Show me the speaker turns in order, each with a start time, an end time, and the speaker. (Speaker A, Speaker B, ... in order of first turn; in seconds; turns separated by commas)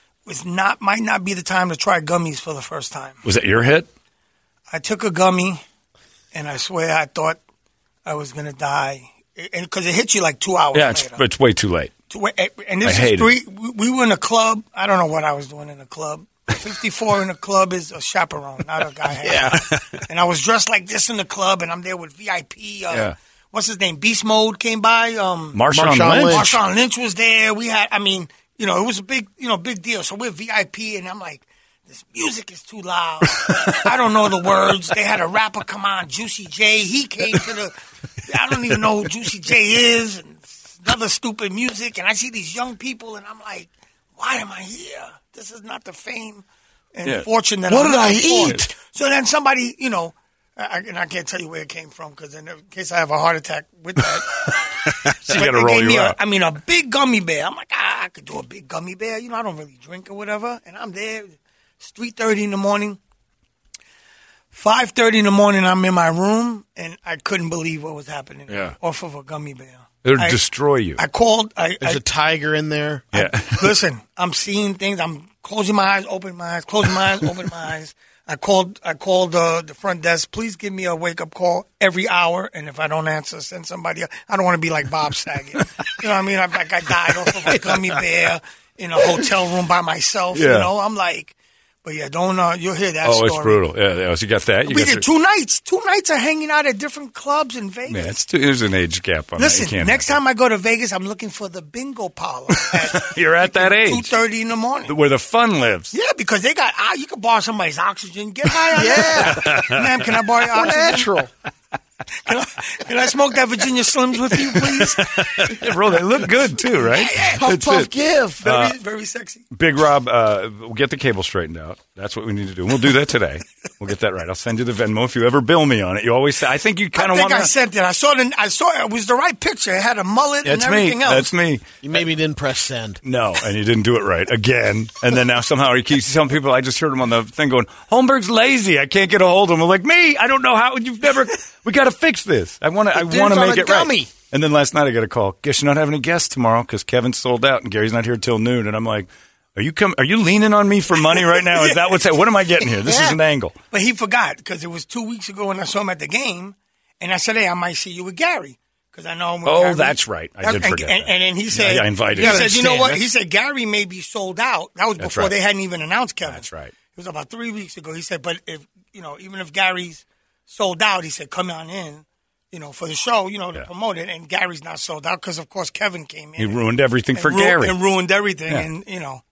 Speaker A: 0.3-3.2, Speaker B: 3.2-3.9, Speaker A: 4.7-5.6, Speaker A: 6.3-7.4, Speaker A: 8.1-11.2, Speaker B: 10.7-11.9, Speaker A: 12.1-25.6, Speaker B: 12.8-13.3, Speaker C: 19.2-19.7, Speaker B: 19.3-19.7, Speaker B: 22.9-23.1, Speaker B: 25.5-26.5, Speaker C: 25.7-26.6, Speaker A: 26.3-37.7, Speaker A: 38.2-63.0, Speaker C: 47.7-48.7, Speaker B: 54.9-56.2, Speaker A: 64.5-70.4, Speaker B: 68.5-68.8, Speaker B: 70.0-71.0, Speaker A: 71.0-72.0, Speaker C: 71.8-73.1, Speaker B: 73.1-73.8, Speaker A: 73.1-93.6, Speaker B: 90.3-90.7, Speaker B: 93.0-95.1, Speaker A: 94.7-98.2, Speaker B: 97.9-100.2, Speaker A: 99.4-105.0, Speaker B: 102.6-104.1, Speaker B: 104.9-105.9, Speaker A: 105.9-111.1, Speaker C: 108.7-109.7, Speaker B: 108.8-109.9, Speaker C: 110.5-111.3, Speaker A: 112.2-115.7, Speaker B: 114.5-117.9, Speaker A: 116.8-117.5, Speaker C: 117.2-118.4, Speaker A: 118.4-119.4, Speaker B: 118.4-118.8, Speaker B: 119.5-127.5, Speaker A: 127.0-131.3, Speaker B: 130.4-131.6, Speaker C: 131.8-133.0, Speaker B: 133.0-153.6, Speaker C: 142.9-144.1, Speaker C: 152.6-153.2, Speaker A: 153.7-179.2, Speaker B: 159.4-162.9, Speaker C: 162.1-163.0, Speaker B: 165.0-165.3, Speaker B: 166.2-166.7, Speaker B: 176.4-177.8